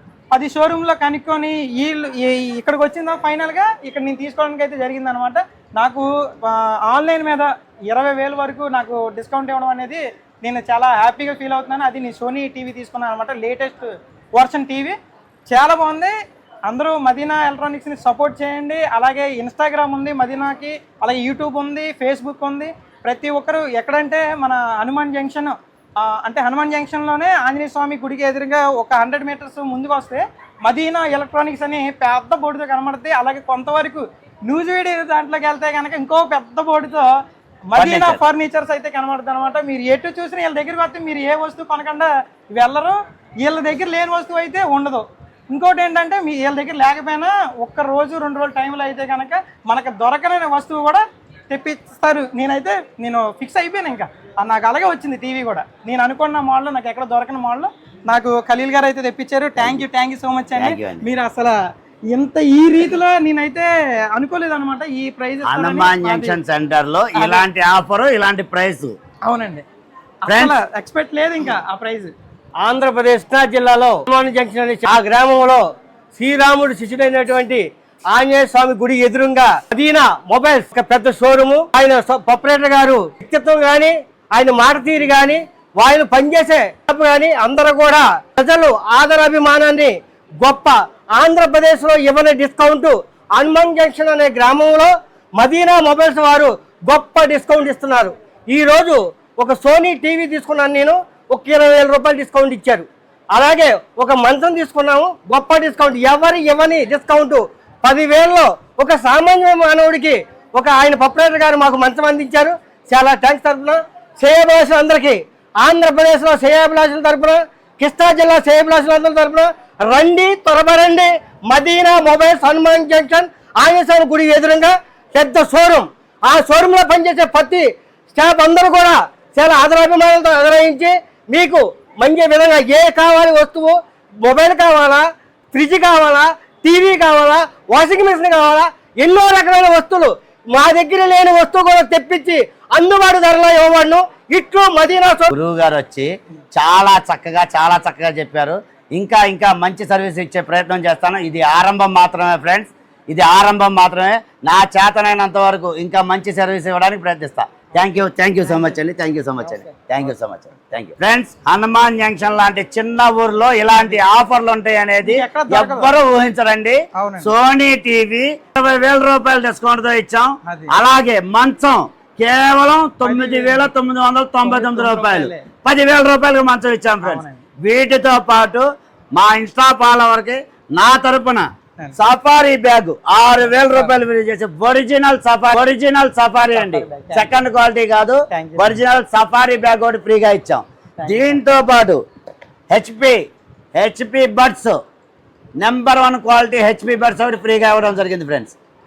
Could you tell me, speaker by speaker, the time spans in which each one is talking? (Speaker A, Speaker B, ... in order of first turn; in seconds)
Speaker A: 0.3-14.9, 15.5-16.1, 16.7-37.1, 37.7-61.6, 62.1-66.4, 67.2-67.4, 69.2-69.6, 70.2-72.1, 159.4-159.8, 165.1-165.9, 167.0-167.3, 170.5-170.8, 173.0-173.7, 174.4-175.5, 177.0-177.4, 183.5-183.9, 186.5-187.3, 188.3-188.8, 191.0-191.4
Speaker B: 37.7-38.2, 59.6-59.8, 60.6-61.1, 65.4-69.0, 70.3-70.6, 145.3-192.0, 192.7-193.2, 193.8-194.8, 195.6-198.6
Speaker C: 72.6-75.6, 76.2-145.3